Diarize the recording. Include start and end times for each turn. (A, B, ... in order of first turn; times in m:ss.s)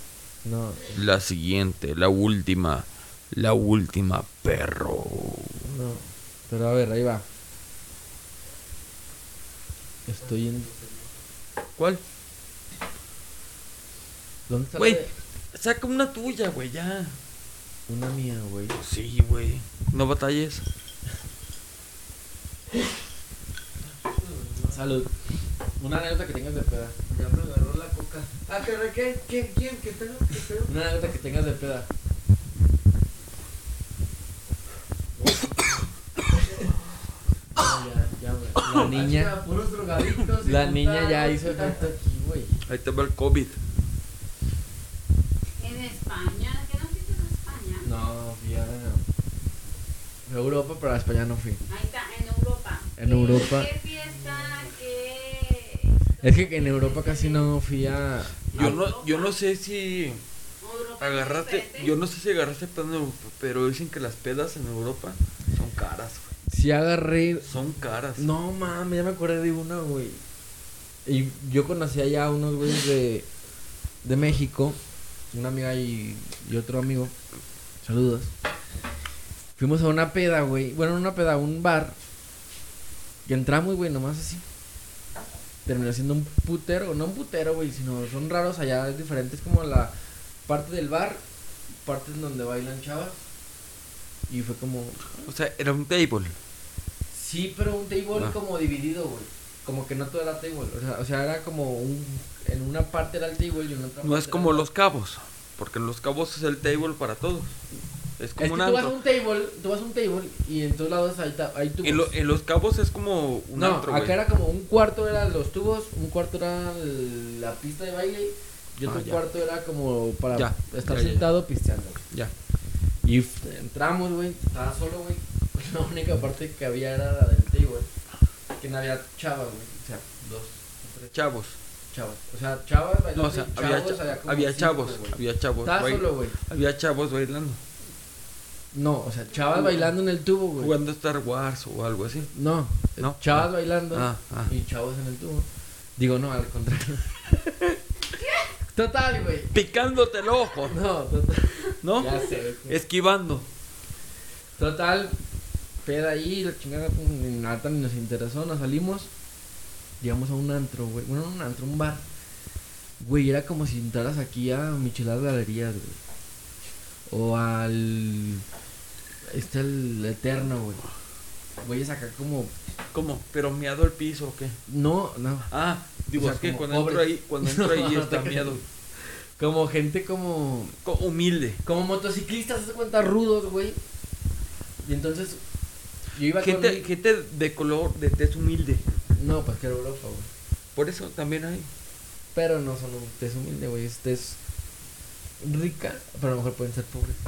0:00.4-0:01.0 A
0:01.0-0:05.6 B
0:05.6-0:07.2 A
0:10.1-0:10.7 A
0:10.2-0:11.1 C
0:11.8-0:12.0 B
0:14.5-0:15.1 A
0:14.8-0:17.2 B
0:17.9-0:18.8 A
0:18.8-0:20.7 B
0:23.8-0:24.9 C
0:24.7-0:25.1 A
0:25.8-0:27.0 A
0:27.1-0:31.2 C
0:30.7-0:31.9 A
0:35.2-0:35.7 C
0:36.4-0:36.8 C
0:37.6-0:39.4 A
0:38.7-0:41.8 C
0:40.4-0:42.6 A
0:42.6-0:43.6 B
0:45.6-0:47.9 D
0:47.8-0:49.1 A
0:50.3-0:51.6 A
0:51.7-0:57.5 D
0:53.0-0:53.7 A
0:56.2-0:58.8 A
0:58.5-0:59.3 D
0:58.5-1:00.2 B
1:00.6-1:01.9 D
1:01.0-1:06.3 B
1:06.5-1:07.5 A
1:07.4-1:08.3 B
1:08.2-1:10.2 A
1:11.0-1:13.3 A
1:14.0-1:14.8 A
1:15.3-1:17.1 A
1:17.8-1:18.3 A
1:19.6-1:22.0 A
1:23.3-1:24.4 A
1:25.7-1:29.9 A
1:30.5-1:31.2 A
1:31.8-1:33.2 A
1:34.3-1:35.3 A
1:35.3-1:36.4 B
1:37.1-1:44.7 A
1:44.0-1:47.5 B
1:48.2-1:49.0 B
1:48.4-1:52.1 A
1:51.8-1:54.2 B
1:53.6-2:02.0 A
1:58.9-1:59.2 B
2:00.3-2:01.3 B
2:03.0-2:07.9 A
2:08.6-2:11.2 A
2:11.1-2:11.6 B
2:11.9-2:16.4 A
2:13.2-2:17.6 B
2:18.7-2:20.7 A
2:19.5-2:19.9 B
2:20.6-2:22.3 B
2:22.3-2:27.2 A
2:23.0-2:24.5 B
2:28.7-2:29.5 A
2:29.5-2:30.8 B
2:30.7-2:32.8 A
2:31.8-2:33.5 B
2:34.6-2:35.2 A
2:35.8-2:39.1 A
2:40.0-2:42.0 A
2:43.0-2:46.0 A
2:47.1-2:48.4 A
2:49.3-2:50.8 A
2:51.6-2:52.5 A
2:52.9-2:54.6 B
2:54.7-2:55.5 A
2:55.5-2:58.6 B
2:56.1-2:58.6 A
2:59.4-3:00.8 A
3:00.8-3:01.6 B
3:01.6-3:03.8 A
3:04.8-3:05.4 A
3:06.1-3:06.9 A
3:06.4-3:08.8 B
3:09.1-3:10.3 A
3:10.8-3:11.7 B
3:12.3-3:14.4 A
3:15.4-3:17.2 A